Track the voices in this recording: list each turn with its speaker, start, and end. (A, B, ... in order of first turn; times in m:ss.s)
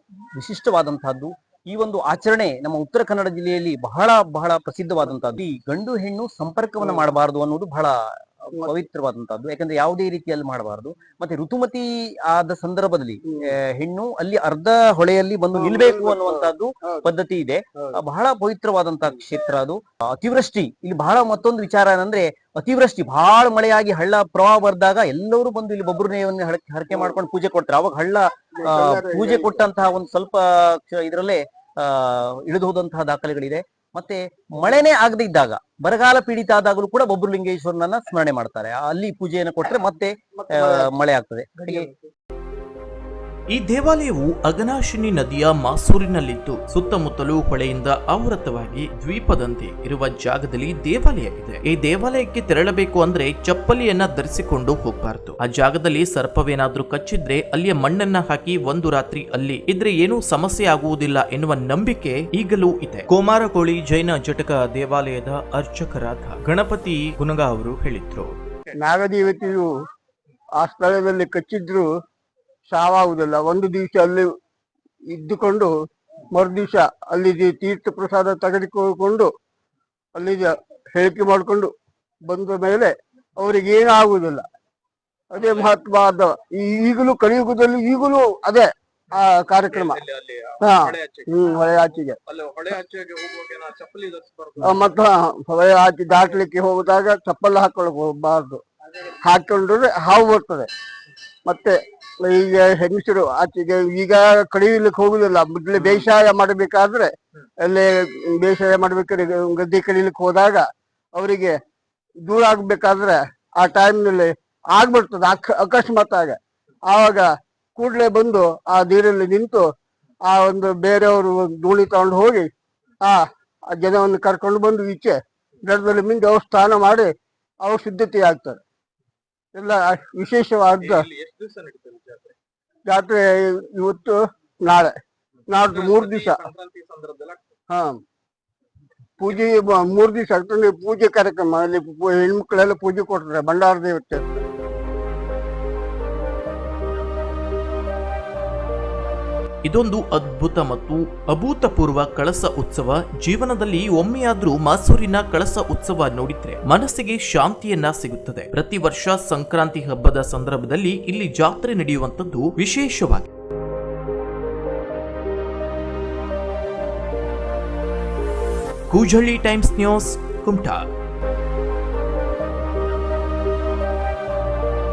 0:00.3-0:41.9 A
0:15.6-0:17.0 B
0:28.6-0:29.6 B
0:40.4-0:40.9 B
0:41.7-0:42.1 B
0:43.5-1:08.4 C
1:08.8-1:09.7 B
1:10.6-1:11.9 B
1:12.7-1:14.3 B
1:15.1-1:15.7 B
1:16.3-1:19.3 B
1:20.1-1:21.7 B
1:22.2-1:24.4 B
1:25.3-1:30.0 B
1:25.4-1:25.7 D
1:29.6-1:34.8 D
1:30.6-1:32.2 B
1:34.6-1:38.6 B
1:39.2-1:40.7 B
1:41.4-1:51.6 B
1:52.2-1:59.7 B
2:00.2-2:02.5 B
2:03.0-2:08.6 B
2:09.5-2:11.0 B
2:10.8-2:12.3 D
2:12.8-2:14.9 B
2:15.5-2:17.6 D
2:15.5-2:16.4 B
2:17.7-2:18.0 B
2:19.2-2:24.4 B
2:29.6-2:43.3 C
2:48.9-2:50.8 C